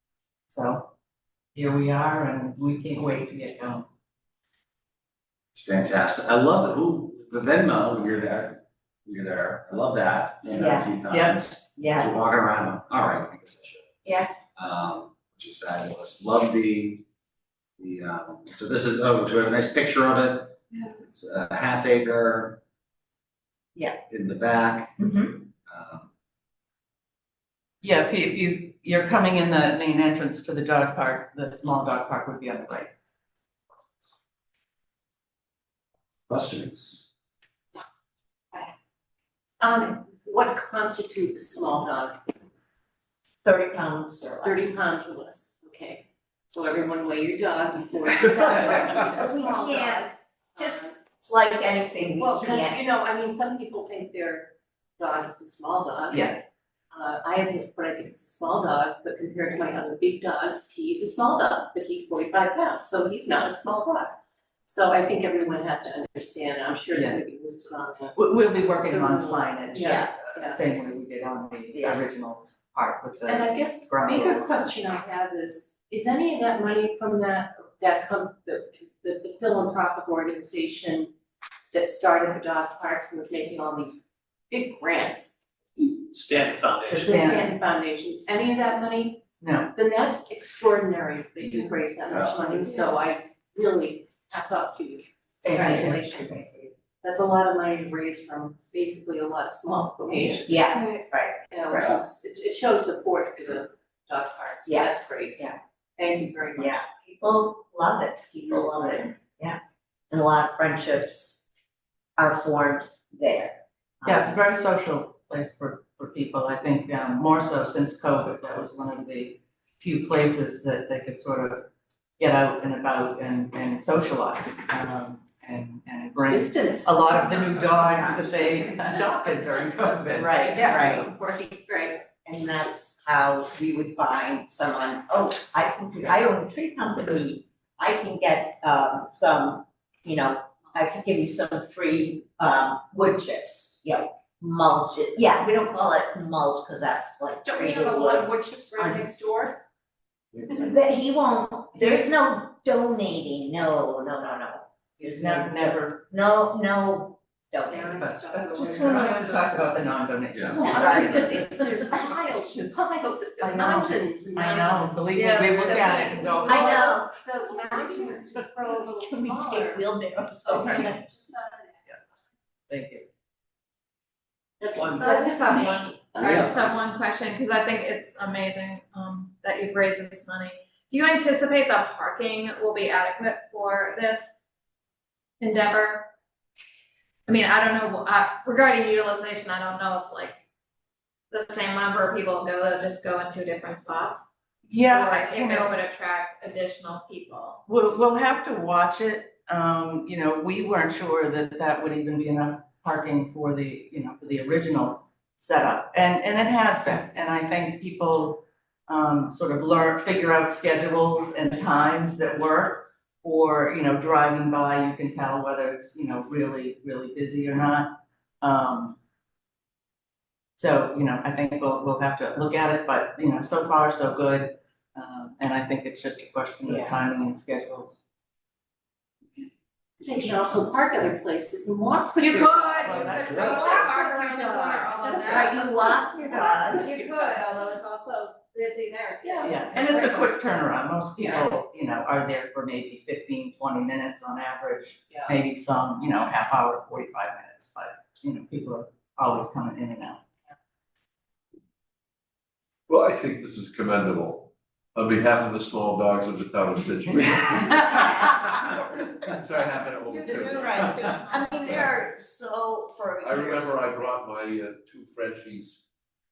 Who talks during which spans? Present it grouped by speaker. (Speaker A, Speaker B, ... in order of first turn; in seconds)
Speaker A: 0.5-0.9, 1.5-3.9, 11.1-11.4, 27.8-32.9, 56.1-56.4, 66.9-67.2, 68.1-74.7, 86.9-87.5, 89.4-89.7, 114.0-130.5, 155.0-156.0, 158.0-161.9, 163.4-166.9, 172.7-173.1, 194.7-195.7, 197.7-219.0, 220.6-228.0, 232.8-233.8, 239.4-250.2, 257.6-258.1
Speaker B: 5.5-13.9, 14.6-17.0, 17.8-22.6, 24.1-25.0, 25.7-26.1, 36.3-37.1, 176.2-176.8, 233.1-233.4
Speaker C: 10.5-10.9, 11.8-12.1, 14.1-14.4, 25.0-25.4, 43.4-44.8, 48.2-52.8, 69.8-70.1, 71.7-72.0, 95.4-96.5, 100.4-102.0, 104.6-105.6, 106.5-109.6, 110.1-111.5, 112.2-114.4, 127.9-128.2, 130.1-131.1, 132.2-149.1, 150.4-158.0, 166.4-171.0, 226.6-227.0, 235.2-236.9, 260.5-263.8
Speaker D: 39.6-42.2, 44.4-51.0, 52.2-70.6, 73.2-81.1, 81.7-85.4, 86.9-100.7, 101.5-106.8, 126.3-132.0, 147.4-149.6, 157.7-159.9, 160.5-169.9, 170.4-172.0, 174.6-176.6, 230.0-235.5, 236.5-237.4, 239.2-240.3, 241.2-241.6, 245.1-245.3
Speaker E: 100.7-101.0, 174.8-184.2, 185.4-186.1, 187.3-190.4, 191.3-194.2, 194.9-197.6, 232.2-239.6, 260.1-261.9
Speaker F: 160.4-160.7, 252.9-258.4, 259.2-261.0, 263.2-265.8